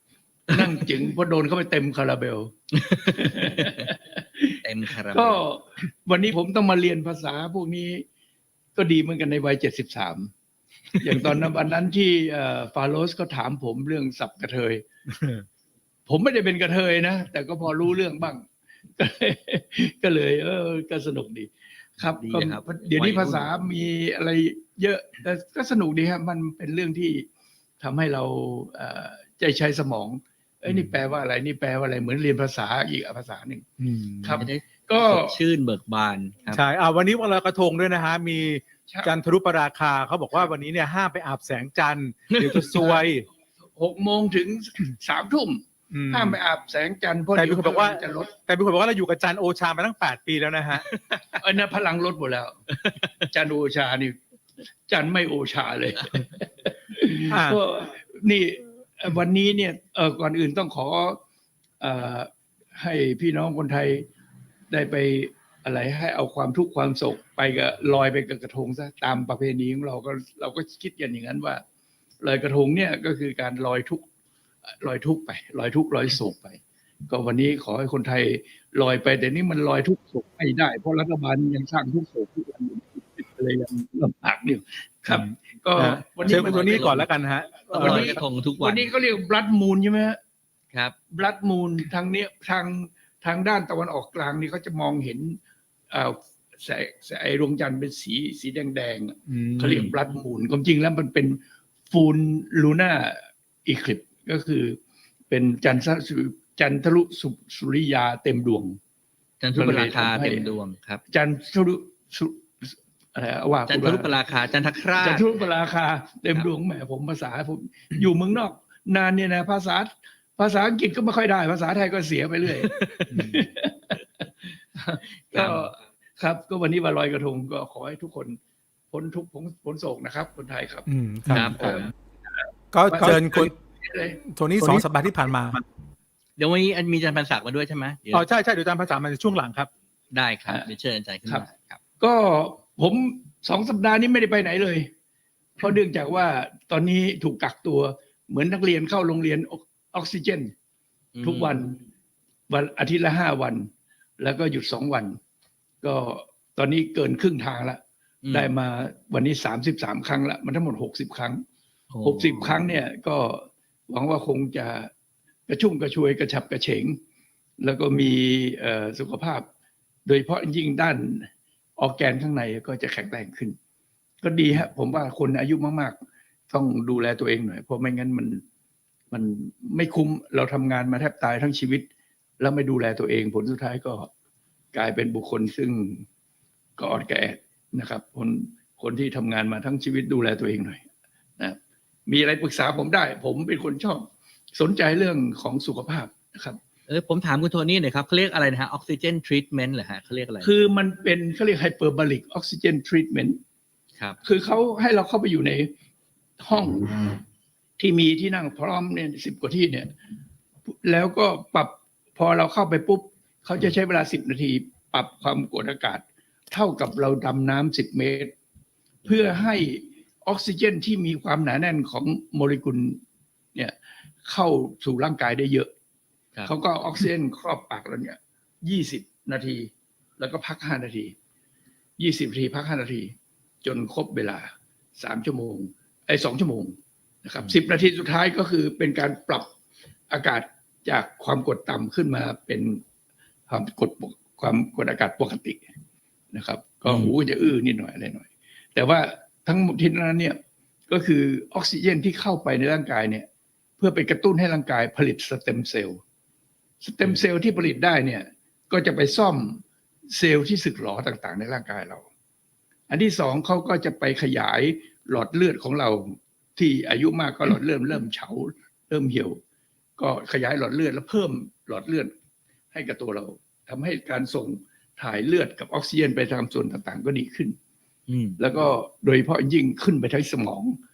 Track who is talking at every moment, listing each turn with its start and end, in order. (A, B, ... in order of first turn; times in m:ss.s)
0:00.5-0:02.6 A
0:02.8-0:03.8 B
0:03.1-0:08.0 A
0:04.6-0:05.4 B
0:08.8-0:10.3 A
0:11.0-0:14.9 A
0:16.1-0:18.5 A
0:19.0-0:27.3 A
0:22.1-0:23.5 B
0:27.8-0:33.7 A
0:30.7-0:31.0 C
0:33.8-0:34.4 C
0:34.2-0:35.4 A
0:34.3-0:36.6 B
0:36.5-0:43.3 C
0:38.9-0:39.1 A
0:42.7-0:43.1 A
0:43.8-0:48.3 A
0:45.9-0:46.4 C
0:47.4-0:50.8 C
0:50.8-0:51.4 B
0:51.4-0:52.7 A
0:53.2-0:54.2 A
0:54.9-1:01.2 A
0:57.3-0:57.6 C
1:01.8-1:04.1 A
1:04.7-1:11.6 A
1:12.2-1:14.0 A
1:14.7-1:27.0 A
1:25.1-1:28.2 C
1:26.2-1:27.1 B
1:27.7-1:30.2 A
1:27.7-1:28.9 B
1:31.1-1:35.4 A
1:35.9-1:44.8 A
1:39.3-1:39.9 C
1:45.3-1:48.8 A
1:49.4-1:51.0 B
1:49.6-1:50.5 A
1:51.1-1:54.1 A
1:53.7-1:55.5 B
1:55.0-2:08.4 A
2:02.6-2:03.1 B
2:03.1-2:03.4 C
2:05.3-2:05.7 B
2:08.9-2:11.9 A
2:10.9-2:11.6 C
2:11.3-2:11.9 B
2:12.7-2:13.5 C
2:12.9-2:14.8 A
2:14.3-2:15.6 C
2:16.4-2:18.3 B
2:18.1-2:19.7 C
2:20.1-2:21.8 B
2:22.0-2:24.9 A
2:25.6-2:30.5 A
2:31.2-2:31.6 B
2:31.2-2:31.8 A
2:32.5-2:33.7 A
2:34.2-2:35.2 A
2:35.8-2:41.4 A
2:38.2-2:38.5 B
2:41.9-2:42.6 B
2:42.0-2:44.9 A
2:45.5-2:47.0 A
2:47.6-2:49.5 A
2:50.1-2:53.6 A
2:54.2-2:56.0 A
2:56.5-2:58.4 A
2:59.1-3:01.9 A
3:02.4-3:04.1 A
3:04.7-3:06.0 A
3:06.8-3:10.8 A
3:11.4-3:16.6 A
3:16.9-3:20.5 B
3:20.4-3:23.4 A
3:24.2-3:25.7 A
3:26.4-3:27.2 A
3:27.8-3:29.9 A
3:30.8-3:38.3 A
3:39.0-3:43.0 A
3:43.6-3:45.7 A
3:46.4-3:51.1 A
3:52.0-3:59.5 A
4:00.1-4:02.8 A
4:03.5-4:05.6 A
4:06.3-4:10.4 A
4:06.9-4:07.1 B
4:10.9-4:13.3 A
4:13.8-4:16.0 A
4:16.8-4:19.6 A
4:20.2-4:22.0 A
4:22.9-4:29.4 A
4:30.0-4:32.1 A
4:32.7-4:37.6 A
4:38.1-4:38.4 B
4:38.4-4:40.8 A